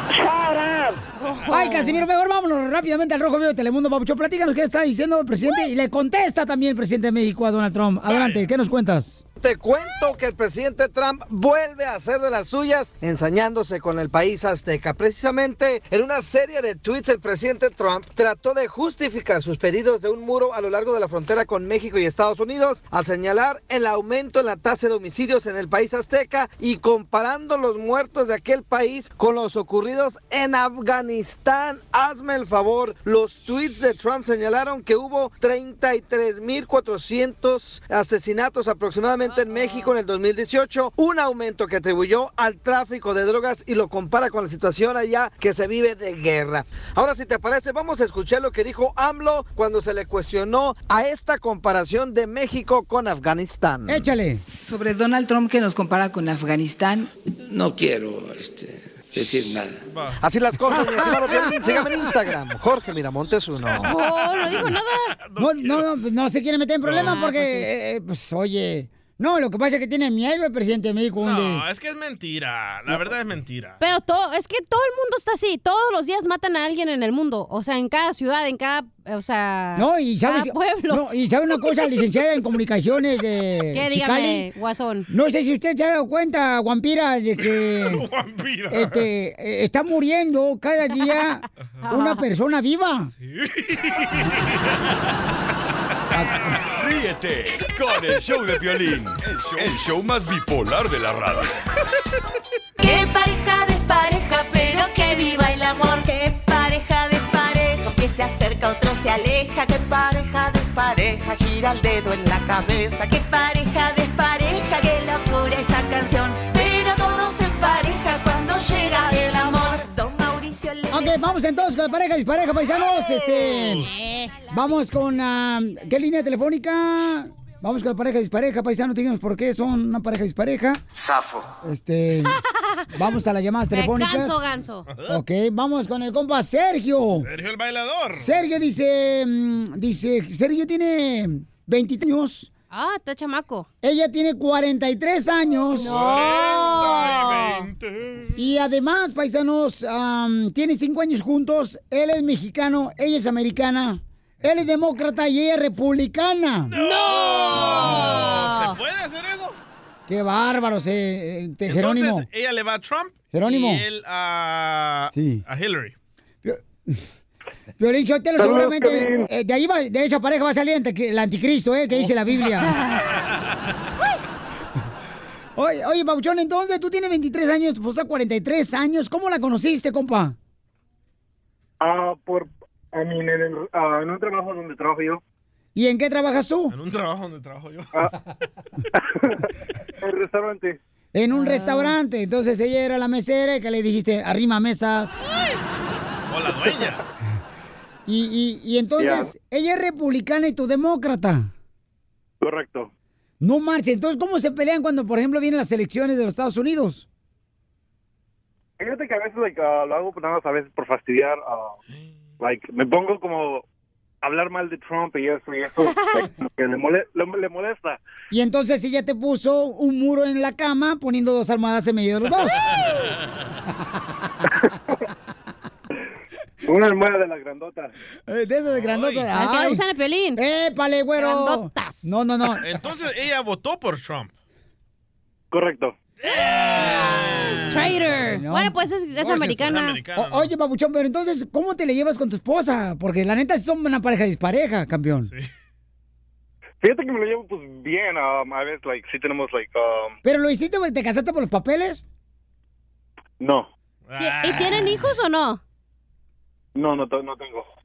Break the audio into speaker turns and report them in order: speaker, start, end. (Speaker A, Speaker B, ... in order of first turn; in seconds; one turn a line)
Speaker A: 1.2-2.0
Speaker B: 1.5-9.2
Speaker C: 8.1-8.4
Speaker D: 9.4-54.1
Speaker A: 39.2-39.9
Speaker B: 53.9-54.4
Speaker E: 54.6-57.1
Speaker F: 57.4-59.8
Speaker C: 59.9-60.2
Speaker D: 60.2-63.9
Speaker B: 60.8-61.9
Speaker A: 63.8-65.1
Speaker C: 64.4-65.8
Speaker B: 65.4-71.6
Speaker C: 66.8-67.2
Speaker A: 67.0-67.7
Speaker C: 71.2-73.8
Speaker A: 73.8-81.0
Speaker B: 79.7-84.5
Speaker A: 83.7-85.1
Speaker B: 85.1-88.1
Speaker C: 87.4-89.0
Speaker B: 88.7-93.1
Speaker A: 91.8-92.2
Speaker C: 93.2-94.9
Speaker B: 96.1-96.6
Speaker C: 96.3-96.6
Speaker G: 96.7-101.5
Speaker H: 102.8-109.6
Speaker H: 113.0-121.0
Speaker B: 120.9-123.9
Speaker C: 122.9-123.9
Speaker A: 123.8-124.4
Speaker B: 124.5-130.8
Speaker B: 131.6-132.4
Speaker B: 132.9-134.5
Speaker A: 133.7-134.9
Speaker C: 134.9-135.2
Speaker B: 135.1-137.3
Speaker C: 137.2-138.3
Speaker B: 138.1-142.5
Speaker A: 142.7-143.7
Speaker B: 143.8-146.0
Speaker A: 145.8-147.6
Speaker C: 145.8-148.4
Speaker B: 148.3-156.7
Speaker C: 156.7-159.6
Speaker A: 156.8-158.8
Speaker B: 160.1-162.3
Speaker C: 161.7-165.9
Speaker B: 163.3-163.8
Speaker B: 165.1-165.4
Speaker B: 166.4-167.0
Speaker B: 167.8-172.8
Speaker I: 168.4-169.0
Speaker B: 175.6-180.3
Speaker I: 181.8-185.2
Speaker H: 184.0-184.4
Speaker B: 185.7-186.7
Speaker C: 186.7-188.0
Speaker I: 190.0-190.8
Speaker B: 191.1-195.2
Speaker A: 191.3-191.9
Speaker C: 196.3-197.0
Speaker B: 198.1-201.5
Speaker I: 199.0-199.2
Speaker I: 202.4-202.9
Speaker B: 203.4-207.1
Speaker I: 208.8-211.7
Speaker I: 212.4-213.6
Speaker I: 214.2-218.0
Speaker A: 215.8-216.3
Speaker B: 218.3-222.6
Speaker C: 222.6-223.1
Speaker I: 226.7-227.9
Speaker B: 228.3-229.8
Speaker C: 228.7-229.3
Speaker A: 229.3-230.4
Speaker B: 230.3-232.6
Speaker A: 231.2-232.1
Speaker C: 232.6-234.3
Speaker I: 235.5-235.9
Speaker C: 236.2-238.1
Speaker A: 237.7-240.0
Speaker B: 237.7-245.3
Speaker C: 239.6-240.5
Speaker I: 246.8-250.2
Speaker B: 250.2-252.0
Speaker I: 253.4-253.7
Speaker C: 254.1-255.0
Speaker A: 254.2-255.6
Speaker I: 256.8-257.6